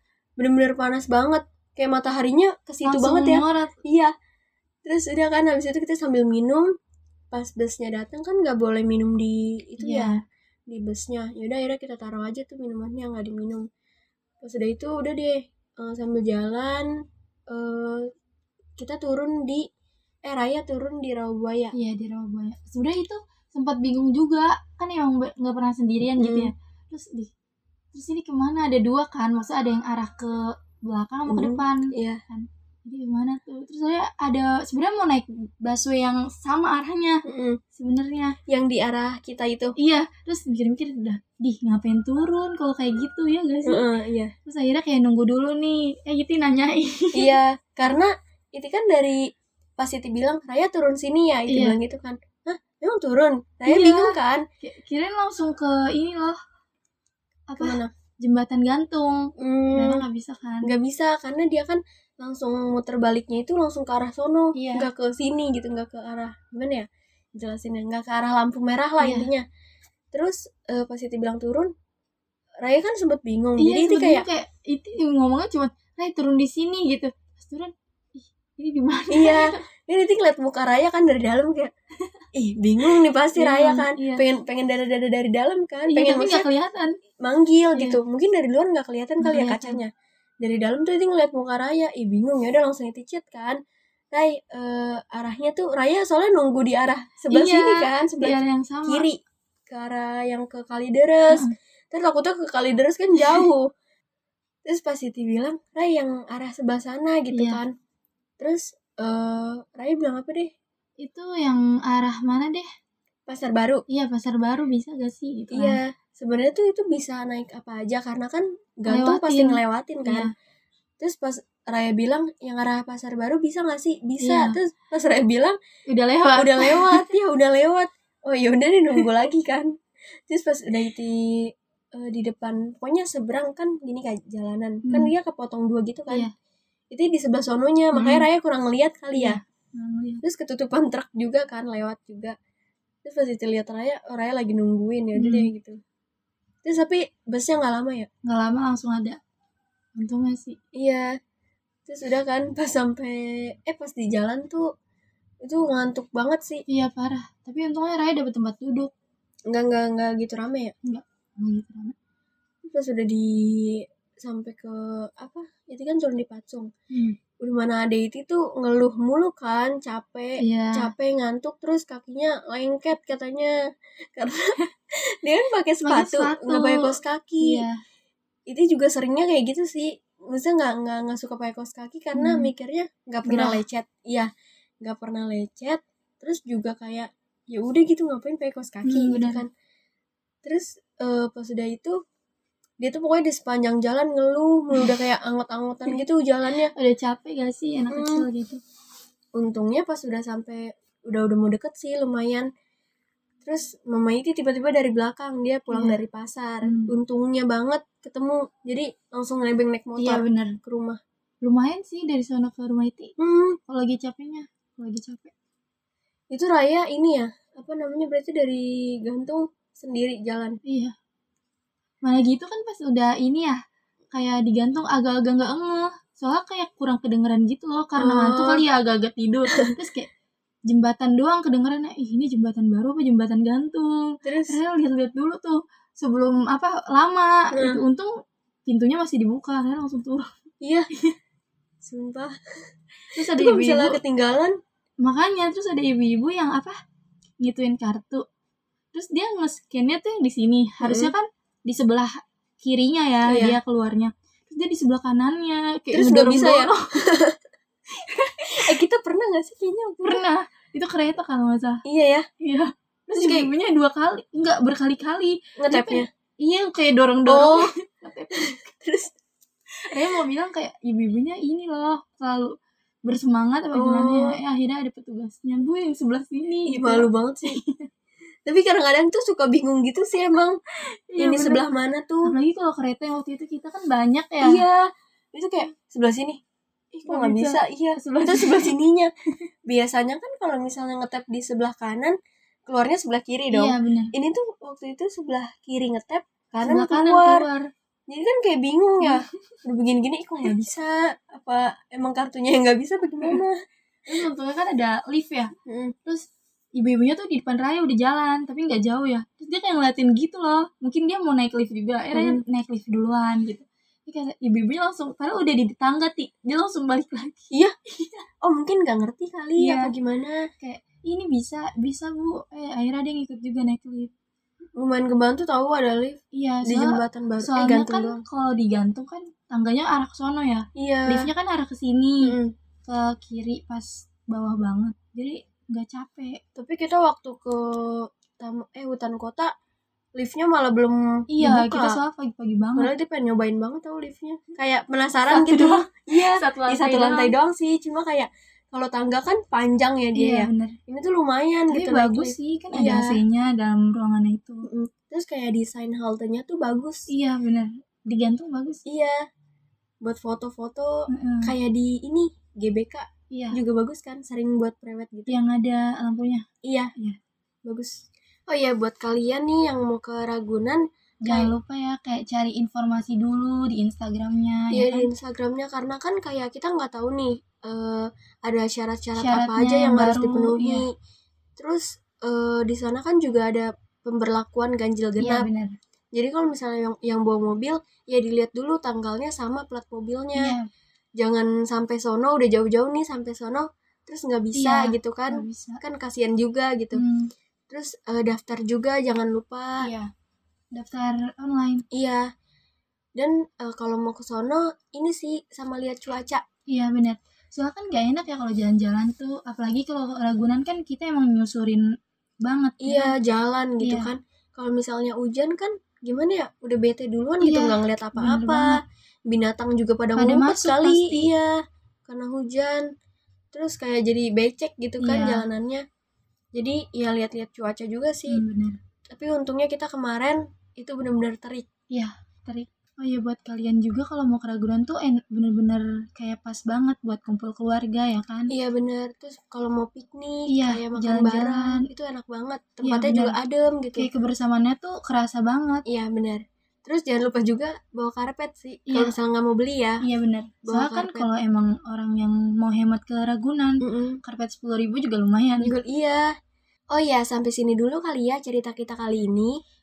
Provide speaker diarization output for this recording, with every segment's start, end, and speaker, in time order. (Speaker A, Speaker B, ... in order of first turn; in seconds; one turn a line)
Speaker A: 0.4-4.1
Speaker B: 2.8-3.8
Speaker A: 4.8-6.7
Speaker A: 7.3-10.2
Speaker B: 9.8-10.2
Speaker A: 10.7-13.7
Speaker A: 14.4-16.9
Speaker A: 17.5-18.1
Speaker A: 18.8-19.6
Speaker A: 20.2-21.7
Speaker B: 21.7-27.3
Speaker A: 26.2-26.5
Speaker B: 27.9-37.2
Speaker A: 31.3-32.2
Speaker A: 37.2-37.6
Speaker B: 37.8-38.4
Speaker A: 38.5-39.7
Speaker B: 39.8-43.8
Speaker A: 43.6-44.3
Speaker B: 44.5-47.3
Speaker A: 47.1-49.2
Speaker A: 49.8-54.4
Speaker B: 51.5-51.8
Speaker B: 53.7-56.4
Speaker B: 57.5-60.7
Speaker A: 57.6-57.9
Speaker A: 59.4-60.0
Speaker A: 60.6-69.4
Speaker B: 64.5-64.9
Speaker B: 69.0-69.3
Speaker A: 70.1-71.7
Speaker A: 72.6-74.2
Speaker B: 73.6-79.6
Speaker A: 79.1-81.7
Speaker A: 82.3-86.5
Speaker B: 83.3-84.2
Speaker B: 85.9-87.0
Speaker A: 87.2-89.9
Speaker B: 89.2-89.8
Speaker A: 90.4-93.6
Speaker A: 94.1-103.7
Speaker B: 97.3-99.1
Speaker B: 103.2-103.4
Speaker A: 104.7-107.7
Speaker B: 107.3-107.6
Speaker A: 108.4-110.5
Speaker B: 111.0-112.7
Speaker A: 113.3-113.8
Speaker B: 113.9-115.8
Speaker A: 115.5-120.3
Speaker B: 118.9-120.3
Speaker A: 121.0-125.6
Speaker B: 124.2-124.6
Speaker B: 125.9-127.0
Speaker A: 126.4-129.7
Speaker A: 130.3-136.3
Speaker B: 134.8-135.1
Speaker A: 136.9-139.4
Speaker B: 137.9-138.3
Speaker B: 139.1-140.2
Speaker A: 140.2-142.3
Speaker A: 143.0-145.8
Speaker B: 145.2-145.5
Speaker A: 146.6-148.1
Speaker B: 148.2-149.2
Speaker B: 150.0-150.6
Speaker A: 150.7-151.1
Speaker A: 151.8-154.7
Speaker A: 155.4-156.6
Speaker B: 156.7-158.9
Speaker A: 159.5-160.7
Speaker B: 160.8-161.9
Speaker A: 162.7-166.7
Speaker A: 167.4-173.5
Speaker B: 170.4-170.9
Speaker A: 174.2-177.6
Speaker B: 175.8-177.8
Speaker A: 178.5-184.3
Speaker B: 182.1-182.5
Speaker B: 183.2-183.6
Speaker A: 184.8-189.5
Speaker B: 188.8-189.4
Speaker A: 190.4-191.9
Speaker A: 192.8-196.7
Speaker B: 196.7-198.6
Speaker A: 197.9-198.2
Speaker A: 199.3-202.5
Speaker A: 203.4-211.0
Speaker B: 205.7-206.0
Speaker B: 206.6-206.9
Speaker B: 210.0-210.6
Speaker B: 211.4-213.1
Speaker A: 213.2-213.6
Speaker B: 213.7-215.3
Speaker A: 216.3-220.6
Speaker B: 220.7-220.9
Speaker B: 222.0-223.6
Speaker B: 224.1-230.1
Speaker A: 228.0-228.6
Speaker B: 230.7-240.3
Speaker A: 234.2-234.6
Speaker A: 237.5-237.8
Speaker A: 240.6-240.9
Speaker A: 241.8-242.3
Speaker B: 243.1-244.0
Speaker A: 243.2-244.5
Speaker B: 245.0-246.8
Speaker B: 247.4-248.2
Speaker B: 248.9-256.9
Speaker A: 250.8-251.1
Speaker A: 253.3-253.6
Speaker A: 255.9-257.4
Speaker B: 257.9-258.5
Speaker A: 258.4-260.2
Speaker B: 260.0-261.8
Speaker A: 261.8-262.2
Speaker B: 262.4-268.5
Speaker A: 263.1-263.5
Speaker A: 265.6-266.1
Speaker A: 267.2-267.7
Speaker A: 268.4-269.1
Speaker B: 269.9-277.9
Speaker A: 273.7-274.4
Speaker A: 276.7-277.6
Speaker A: 278.4-280.6
Speaker B: 281.1-281.6
Speaker A: 281.2-282.3
Speaker B: 282.2-284.6
Speaker A: 284.4-286.4
Speaker A: 286.9-289.1
Speaker B: 287.1-288.7
Speaker A: 289.7-292.1
Speaker A: 292.7-297.4
Speaker B: 293.5-294.1
Speaker B: 296.6-297.7
Speaker A: 298.1-303.6
Speaker B: 304.1-305.5
Speaker A: 305.6-305.9
Speaker B: 306.1-318.2
Speaker A: 312.1-312.4
Speaker A: 318.4-320.5
Speaker B: 319.6-319.9
Speaker B: 320.6-324.1
Speaker A: 324.8-328.2
Speaker B: 326.3-336.4
Speaker A: 330.8-331.3
Speaker A: 332.2-332.5
Speaker A: 336.6-339.5
Speaker A: 340.2-342.0
Speaker B: 341.3-342.9
Speaker A: 342.8-353.1
Speaker B: 345.3-347.3
Speaker B: 350.1-350.7
Speaker B: 351.7-354.7
Speaker A: 354.6-357.1
Speaker B: 357.1-358.8
Speaker A: 358.9-359.2
Speaker A: 360.0-365.3
Speaker B: 361.1-361.5
Speaker B: 363.3-363.6
Speaker B: 365.3-366.4
Speaker A: 366.6-366.9
Speaker A: 367.6-371.5
Speaker B: 371.2-375.1
Speaker A: 374.7-380.9
Speaker B: 379.2-380.8
Speaker A: 381.6-385.5
Speaker B: 385.2-385.8
Speaker A: 386.1-390.6
Speaker B: 390.3-390.7
Speaker A: 391.2-397.0
Speaker B: 394.5-395.8
Speaker B: 396.9-397.3
Speaker A: 397.7-399.9
Speaker B: 399.8-400.1
Speaker B: 400.7-401.8
Speaker A: 401.9-402.3
Speaker A: 403.1-406.4
Speaker B: 406.7-411.8
Speaker B: 412.4-413.1
Speaker A: 412.8-421.5
Speaker B: 413.8-414.1
Speaker B: 417.4-418.8
Speaker B: 420.1-421.3
Speaker A: 422.1-422.9
Speaker A: 423.5-425.8
Speaker B: 425.0-425.5
Speaker A: 426.5-428.4
Speaker B: 428.3-428.8
Speaker A: 429.1-431.7
Speaker B: 431.9-438.5
Speaker A: 438.5-444.1
Speaker B: 440.5-441.8
Speaker B: 442.8-443.4
Speaker B: 443.9-445.8
Speaker A: 445.9-450.0
Speaker B: 448.9-449.1
Speaker B: 450.0-455.7
Speaker A: 450.6-451.3
Speaker A: 453.8-454.2
Speaker A: 455.6-456.3
Speaker A: 456.9-459.5